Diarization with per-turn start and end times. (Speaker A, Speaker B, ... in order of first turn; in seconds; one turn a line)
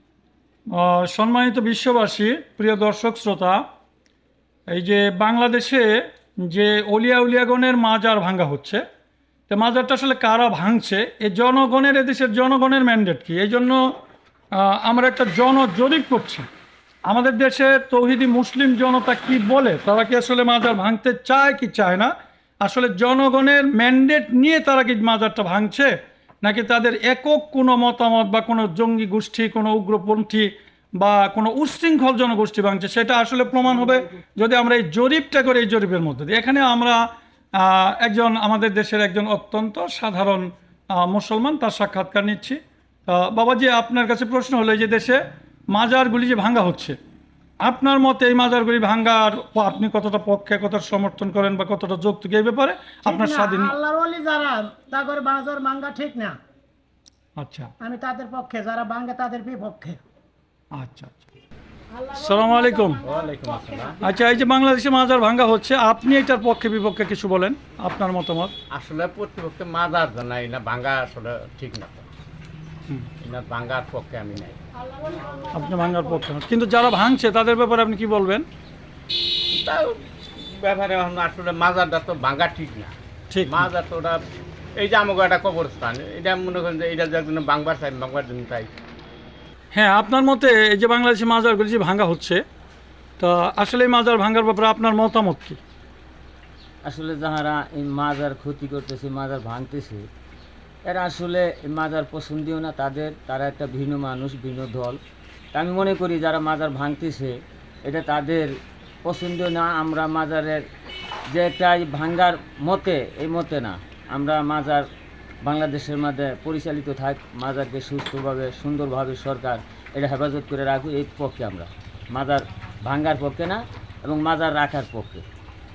Speaker A: 0.7-3.6
Speaker A: 4.7-8.8
Speaker A: 9.5-13.8
Speaker A: 14.6-16.5
Speaker A: 17.1-22.1
Speaker A: 22.6-37.0
Speaker A: 37.6-45.2
Speaker A: 45.7-47.0
Speaker A: 47.6-53.8
Speaker B: 53.0-56.4
Speaker A: 57.4-57.7
Speaker B: 57.8-60.0
Speaker A: 60.7-61.2
Speaker A: 62.1-63.0
Speaker B: 62.2-63.5
Speaker C: 63.0-64.0
Speaker A: 64.0-68.5
Speaker C: 68.7-72.0
Speaker C: 73.2-74.6
Speaker A: 75.5-78.5
Speaker C: 79.5-82.9
Speaker A: 83.3-83.7
Speaker C: 83.5-84.2
Speaker C: 84.8-88.7
Speaker A: 89.7-92.4
Speaker A: 93.2-95.6
Speaker D: 96.8-100.0
Speaker D: 100.8-105.0
Speaker D: 105.5-110.6
Speaker D: 111.3-114.8
Speaker D: 115.4-125.2